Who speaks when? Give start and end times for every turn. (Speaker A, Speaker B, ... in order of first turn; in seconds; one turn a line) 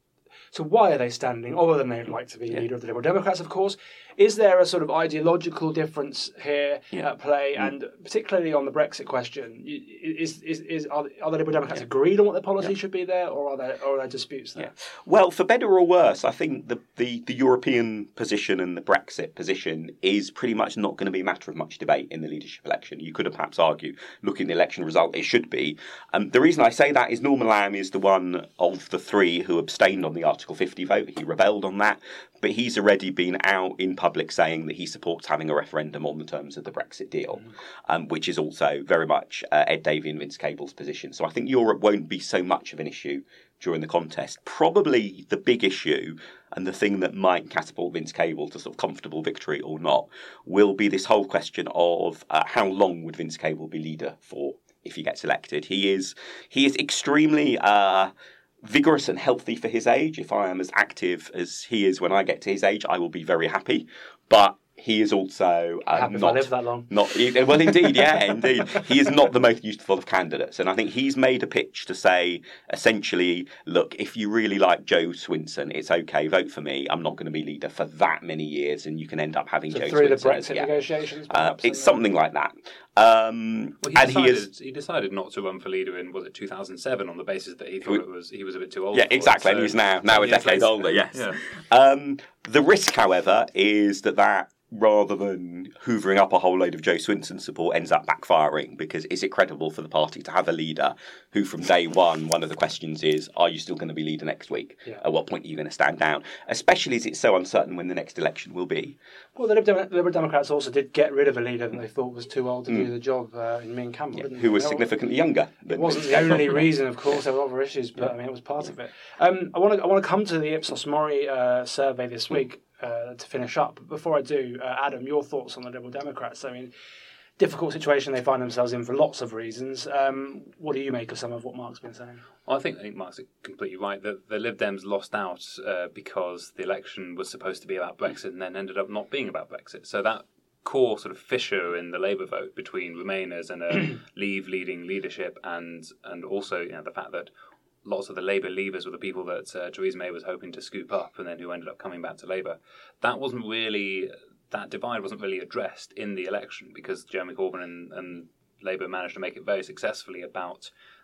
Speaker A: 0.5-14.7
Speaker B: 14.6-58.1
Speaker B: 58.6-80.7
Speaker A: 65.9-66.9
Speaker A: 79.7-82.0
Speaker B: 81.3-84.5
Speaker C: 83.8-91.4
Speaker B: 88.9-109.0
Speaker A: 109.4-114.9
Speaker B: 114.2-116.7
Speaker A: 115.7-126.7
Speaker A: 127.4-132.2
Speaker C: 132.5-147.3
Speaker C: 147.8-160.7